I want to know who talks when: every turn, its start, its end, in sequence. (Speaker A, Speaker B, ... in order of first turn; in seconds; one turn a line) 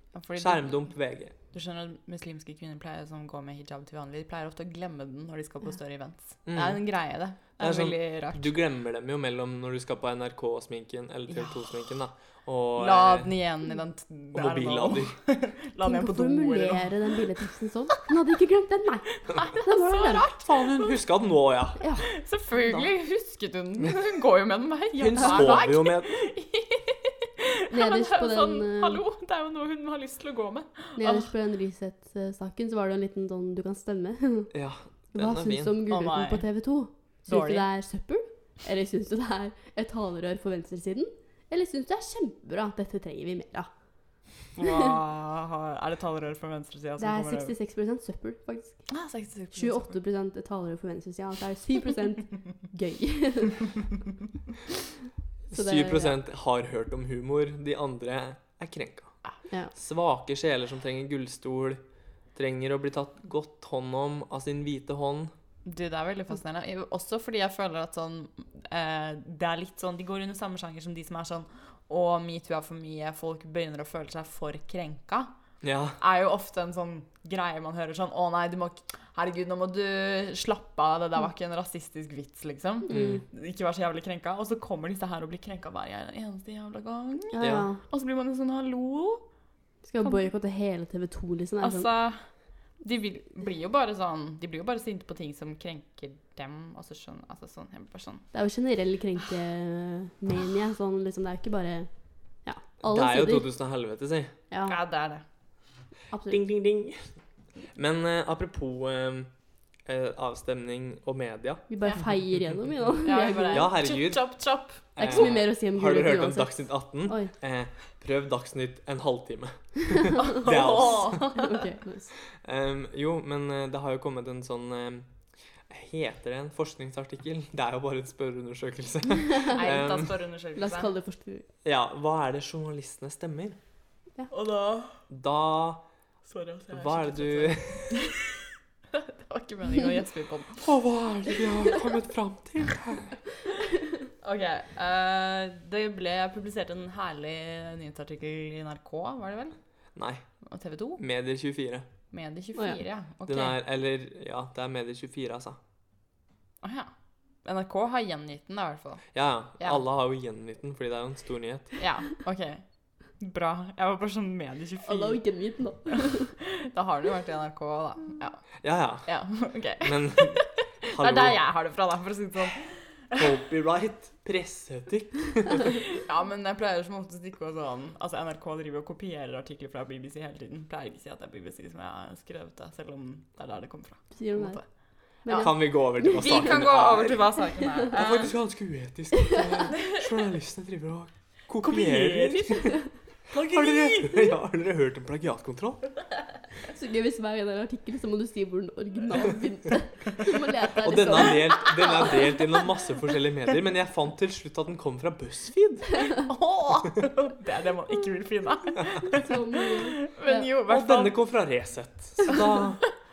Speaker A: 0.1-0.9
Speaker B: 0.3-1.3
Speaker A: 1.5-8.6
Speaker B: 6.5-6.8
Speaker B: 7.6-13.3
Speaker A: 11.3-11.9
Speaker A: 12.8-17.2
Speaker B: 14.3-15.2
Speaker C: 15.8-20.3
Speaker A: 19.2-20.9
Speaker B: 20.4-21.8
Speaker C: 21.8-22.1
Speaker A: 22.0-31.3
Speaker B: 25.0-26.2
Speaker C: 27.7-29.0
Speaker C: 30.9-34.5
Speaker B: 34.5-35.7
Speaker C: 35.1-43.7
Speaker A: 35.9-36.5
Speaker A: 37.3-37.7
Speaker A: 44.5-47.5
Speaker C: 47.0-48.9
Speaker A: 48.9-50.0
Speaker C: 49.5-53.8
Speaker B: 55.5-59.2
Speaker C: 55.5-56.1
Speaker B: 59.7-61.8
Speaker B: 62.3-65.3
Speaker A: 65.6-75.3
Speaker B: 75.6-76.0
Speaker A: 76.0-89.2
Speaker C: 82.9-83.2
Speaker B: 82.9-83.2
Speaker C: 87.3-87.8
Speaker B: 87.4-87.7
Speaker C: 89.8-91.9
Speaker A: 91.6-98.3
Speaker C: 98.3-103.5
Speaker B: 102.8-104.3
Speaker C: 104.5-104.8
Speaker A: 104.7-105.2
Speaker C: 106.1-106.4
Speaker B: 106.3-107.1
Speaker B: 107.7-109.3
Speaker B: 109.8-111.7
Speaker C: 111.7-113.7
Speaker A: 111.8-112.1
Speaker A: 113.0-115.3
Speaker B: 113.5-121.3
Speaker C: 115.0-117.3
Speaker A: 120.2-121.6
Speaker C: 121.4-122.1
Speaker B: 122.3-125.1
Speaker B: 125.7-130.1
Speaker A: 129.5-130.9
Speaker C: 130.6-131.5
Speaker B: 131.6-133.6
Speaker A: 134.3-135.0
Speaker B: 135.1-135.9
Speaker A: 136.2-138.2
Speaker B: 136.7-138.1
Speaker A: 138.9-140.7
Speaker B: 140.6-143.2
Speaker A: 144.2-149.6
Speaker B: 149.9-150.3
Speaker A: 150.4-151.0
Speaker B: 151.0-151.9
Speaker A: 152.1-153.6
Speaker B: 153.2-155.6
Speaker A: 156.6-156.9
Speaker A: 157.4-159.8
Speaker B: 159.1-161.7
Speaker A: 161.8-165.2
Speaker C: 164.8-166.3
Speaker A: 166.7-173.2
Speaker B: 168.6-171.4
Speaker B: 173.1-175.8
Speaker A: 175.9-188.3
Speaker C: 184.1-184.7
Speaker C: 185.2-186.4
Speaker B: 185.4-187.2
Speaker B: 187.9-192.8
Speaker A: 191.6-194.3
Speaker B: 193.4-195.9
Speaker C: 196.7-202.1
Speaker B: 200.8-205.9
Speaker A: 201.6-202.0
Speaker A: 206.2-211.2
Speaker C: 209.1-210.5
Speaker B: 210.7-212.8